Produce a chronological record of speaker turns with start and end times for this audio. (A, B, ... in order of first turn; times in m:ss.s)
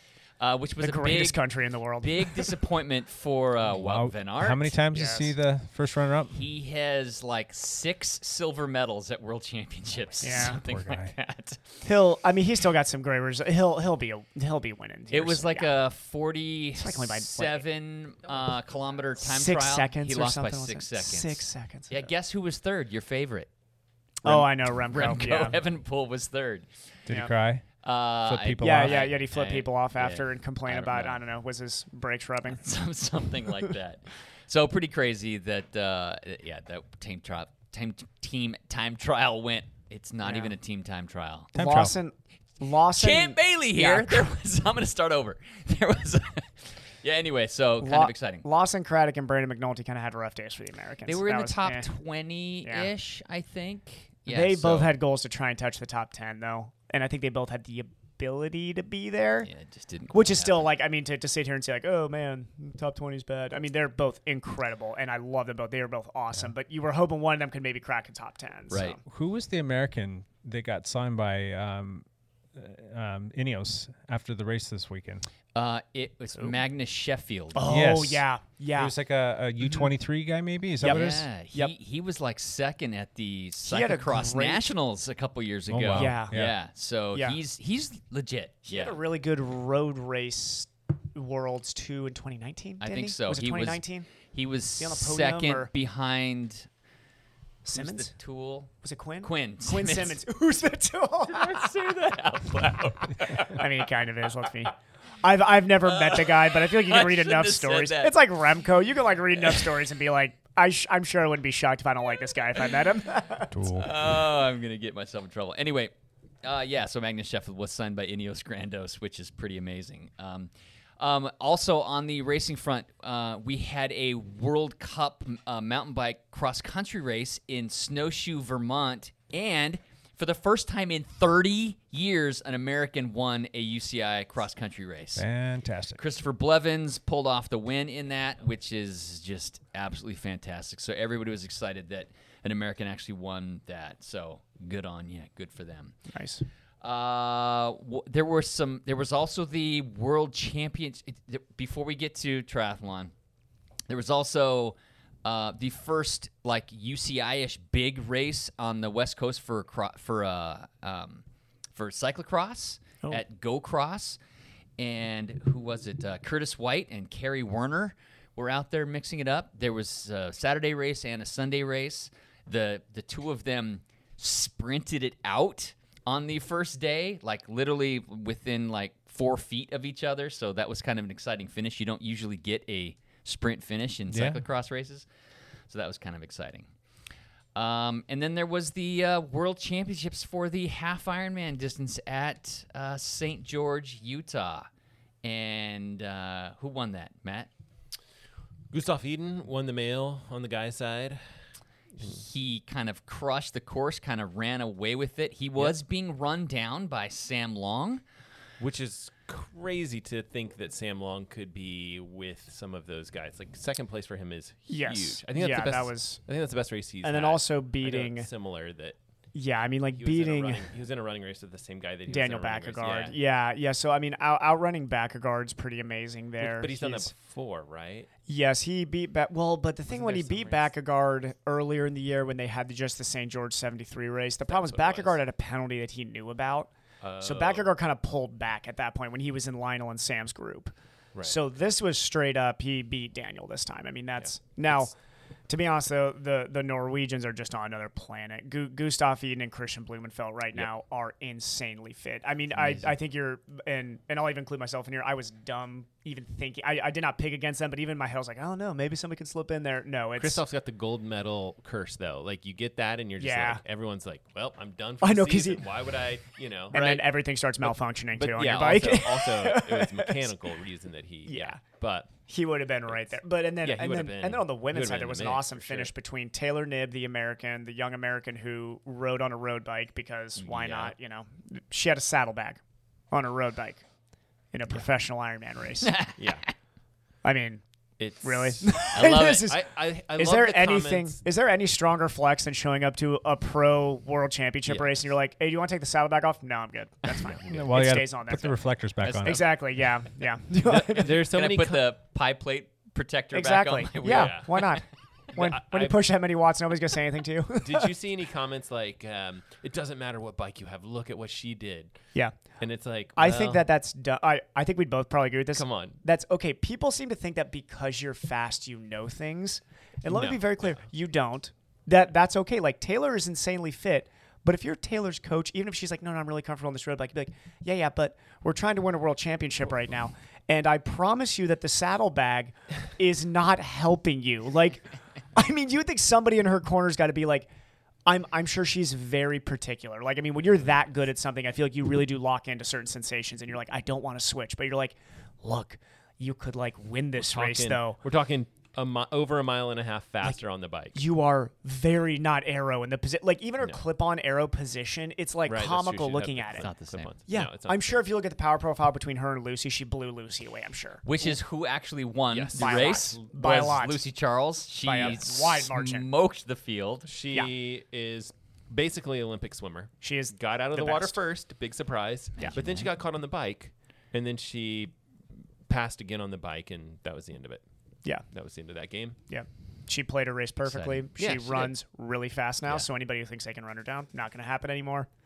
0:00.4-0:01.4 A
0:00.8-0:02.5 B
0:02.0-0:04.8 A
0:03.6-0:06.4 C
0:04.9-0:05.3 B
0:06.3-0:11.6 A
0:10.2-0:10.6 B
0:10.4-0:11.1 C
0:11.8-0:15.7 B
0:15.1-0:23.5 A
0:16.8-0:17.6 B
0:19.2-0:22.1 B
0:24.2-0:25.6 B
0:24.2-0:26.7 A
0:27.0-0:27.6 C
0:27.8-0:31.2 A
0:28.2-0:29.1 C
0:28.6-0:32.6 B
0:32.6-0:41.5 A
0:40.2-0:40.5 B
0:41.5-0:42.0 C
0:41.5-0:44.3 B
0:43.0-0:48.4 A
0:47.8-0:51.9 B
0:51.0-0:54.9 A
0:52.6-0:52.9 B
0:54.3-0:59.5 B
0:59.4-1:00.7 A
1:00.1-1:09.0 B
1:08.7-1:09.0 A
1:09.0-1:15.2 C
1:15.5-1:17.6 A
1:16.3-1:16.6 B
1:17.5-1:18.9 B
1:17.7-1:21.3 C
1:19.6-1:19.9 B
1:20.8-1:21.7 B
1:20.8-1:29.0 A
1:23.6-1:24.7 B
1:25.7-1:26.5 C
1:25.9-1:26.4 B
1:27.1-1:27.4 B
1:28.6-1:34.1 B
1:32.8-1:36.7 A
1:34.8-1:35.7 B
1:37.6-1:38.1 B
1:37.7-1:38.7 A
1:38.8-1:41.6 B
1:39.2-1:40.2 A
1:41.3-1:43.6 A
1:43.3-1:53.8 B
1:45.9-1:48.2 A
1:49.4-1:49.7 A
1:53.5-1:53.9 C
1:53.8-2:15.2 A
2:15.1-2:16.0 C
2:16.0-2:26.0 A
2:26.1-2:26.4 B
2:26.8-2:33.1 A
2:33.9-2:41.2 A
2:41.7-2:44.2 A
2:44.8-3:05.1 A
3:04.1-3:04.4 C
3:05.7-3:06.7 A
3:07.5-3:14.7 A
3:15.2-3:17.5 A
3:18.7-3:21.2 D
3:22.0-3:28.0 A
3:28.6-3:39.0 D
3:34.7-3:36.2 B
3:37.0-3:38.3 B
3:39.3-3:40.7 B
3:39.9-3:43.2 D
3:42.1-3:47.1 B
3:46.4-3:48.1 D
3:48.3-4:04.9 B
3:49.9-3:50.7 D
3:54.5-3:55.2 D
3:57.0-3:57.7 D
4:04.2-4:04.9 D
4:05.5-4:20.4 B
4:12.6-4:12.9 D
4:20.2-4:27.1 D
4:23.2-4:23.6 B
4:25.0-4:25.6 B
4:26.7-4:30.3 B
4:27.6-4:32.1 D
4:31.3-4:31.6 B
4:32.2-4:42.6 B
4:32.9-4:35.9 D
4:40.4-4:40.9 D
4:43.1-4:43.8 B
4:44.5-4:46.0 B
4:45.8-4:46.1 A
4:46.2-4:46.5 D
4:47.2-4:47.6 B
4:48.0-4:51.2 D
4:48.2-5:01.2 B
4:48.9-4:49.5 A
4:54.6-4:55.1 D
4:57.2-4:57.7 D
4:57.5-4:59.4 C
4:59.0-4:59.6 A
5:00.6-5:01.8 D
5:01.2-5:04.6 A
5:03.3-5:07.9 B
5:04.0-5:04.8 D
5:05.3-5:06.1 D
5:07.6-5:12.0 D
5:12.6-5:13.6 D
5:13.2-5:37.5 B
5:15.5-5:16.0 D
5:20.1-5:20.8 D
5:38.0-5:48.0 B
5:47.2-5:51.0 D
5:50.9-5:56.7 B
5:55.4-5:58.0 D
5:56.6-5:57.1 A
5:57.3-6:01.4 B
6:01.0-6:07.1 A
6:02.3-6:03.2 D
6:02.5-6:04.1 B
6:04.8-6:06.1 B
6:07.0-6:14.9 D
6:10.0-6:11.2 B
6:12.4-6:12.9 A
6:15.7-6:17.6 D
6:18.3-6:19.2 D
6:19.3-6:25.1 B
6:20.6-6:21.0 A
6:21.2-6:21.7 D